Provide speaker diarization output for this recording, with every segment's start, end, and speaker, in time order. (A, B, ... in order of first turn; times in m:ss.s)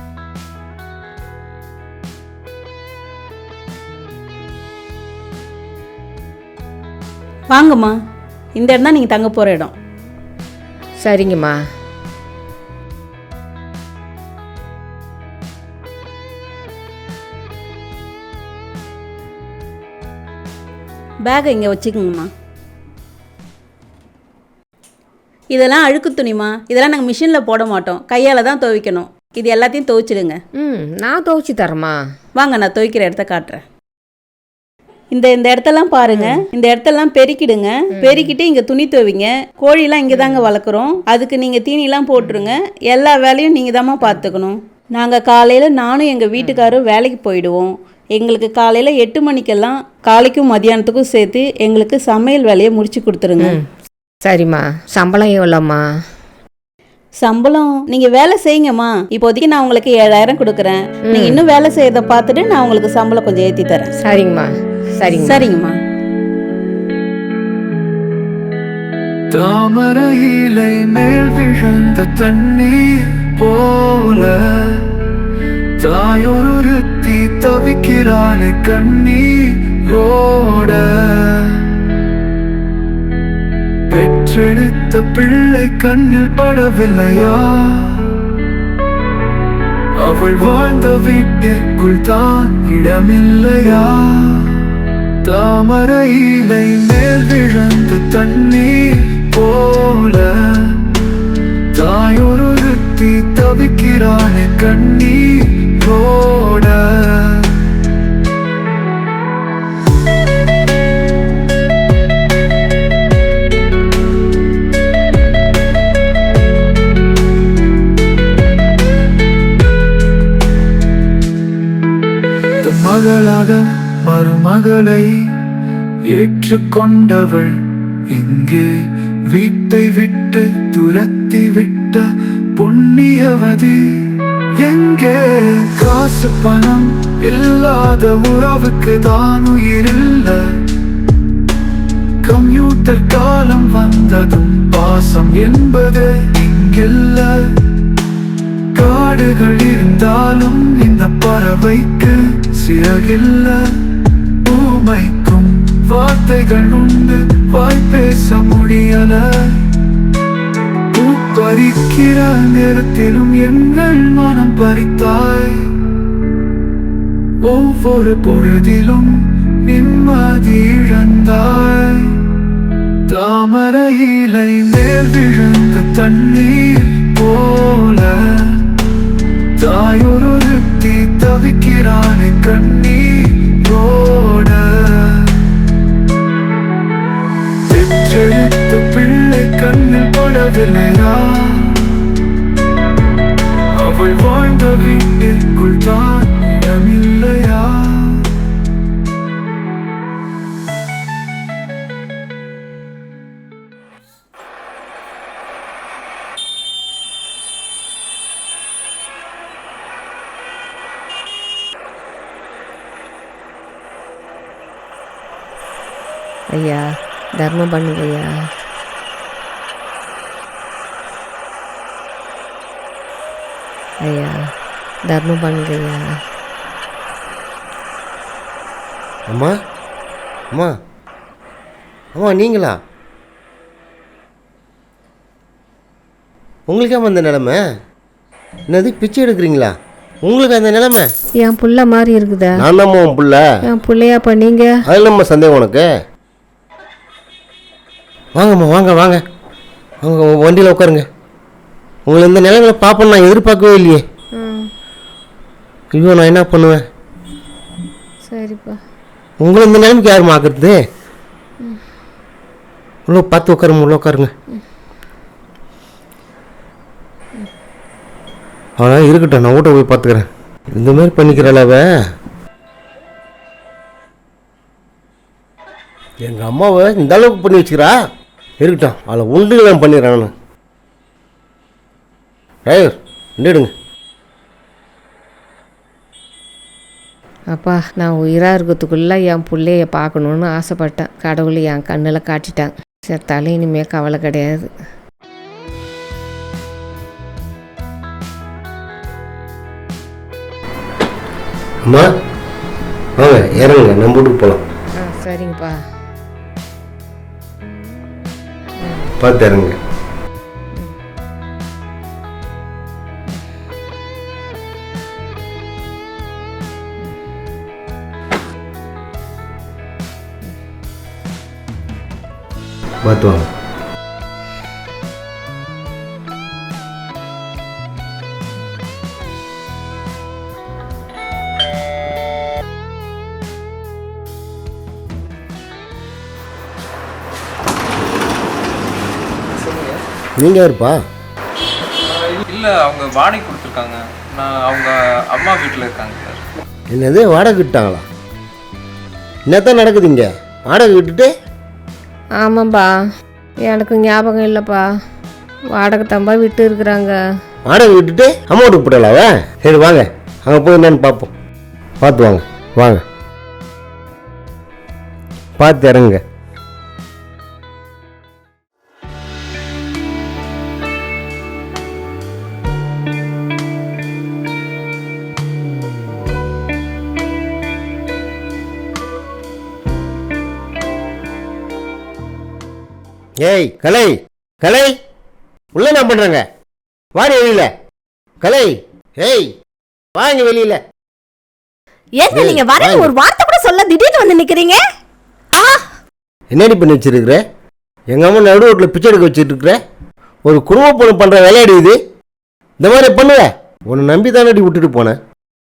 0:07.5-0:07.9 A
0:08.6-0:09.7 A
0:11.0-0:11.6 B
0:21.2-0:22.3 A
0:25.5-0:30.4 A
0:30.6-0:32.0 B
0:32.4-0:33.6 A
0:35.1-0:53.6 A
0:36.0-0:36.4 B
0:38.0-0:38.3 B
0:40.1-0:40.5 B
0:42.2-0:42.5 B
0:46.4-0:46.7 B
0:54.2-0:55.8 B
0:57.2-1:03.9 A
1:01.1-1:01.4 B
1:04.0-1:05.5 B
1:05.2-1:05.8 A
1:09.3-1:15.1 C
1:15.8-1:21.8 C
1:23.9-1:28.2 C
1:30.0-1:40.9 C
1:41.7-1:47.8 C
2:02.6-2:05.4 C
2:06.0-2:20.7 C
2:22.2-2:27.6 C
2:28.7-2:33.8 C
2:34.4-2:39.8 C
2:40.9-2:45.7 C
2:47.4-2:52.3 C
2:53.1-2:58.7 C
2:59.6-3:05.5 C
3:07.6-3:12.1 C
3:13.8-3:18.4 C
3:36.5-3:36.9 B
3:37.4-3:38.3 B
3:44.0-3:44.4 B
3:45.1-3:46.1 B
3:49.3-3:49.5 D
3:52.2-3:52.8 D
3:56.7-3:57.6 D
3:58.7-3:59.7 D
4:00.2-4:01.1 D
4:01.4-4:02.6 B
4:02.6-4:03.4 D
4:03.7-4:04.7 B
4:04.9-4:05.8 D
4:08.4-4:09.2 D
4:10.0-4:11.1 D
4:12.1-4:14.0 D
4:14.4-4:14.7 B
4:16.0-4:16.8 D
4:18.3-4:18.8 B
4:19.4-4:20.8 D
4:23.1-4:24.3 D
4:28.8-4:31.8 D
4:36.2-4:37.9 D
4:38.6-4:40.3 D
4:42.7-4:43.7 D
4:47.5-4:54.7 B
5:03.2-5:04.6 D
5:05.0-5:05.8 B
5:08.8-5:09.1 B
5:09.2-5:09.8 D
5:23.0-5:23.5 D
5:39.6-5:40.0 E
5:40.4-5:41.0 D
5:42.2-5:46.4 E
5:46.9-5:48.0 D
5:49.5-5:51.3 D
5:52.4-5:52.9 B
5:53.7-5:54.8 B
5:55.8-5:57.2 B
5:57.7-6:01.3 D
6:02.0-6:03.0 D
6:05.6-6:06.2 D
6:23.4-6:24.9 D
6:25.8-6:26.4 D
6:27.2-6:27.7 D
6:28.4-6:29.5 D
6:30.2-6:30.8 D
6:32.1-6:34.8 F
6:32.3-6:33.1 D
6:35.5-6:35.8 F
6:36.5-6:37.4 D
6:38.1-6:39.8 D
6:40.5-6:42.0 D
6:42.8-6:45.2 D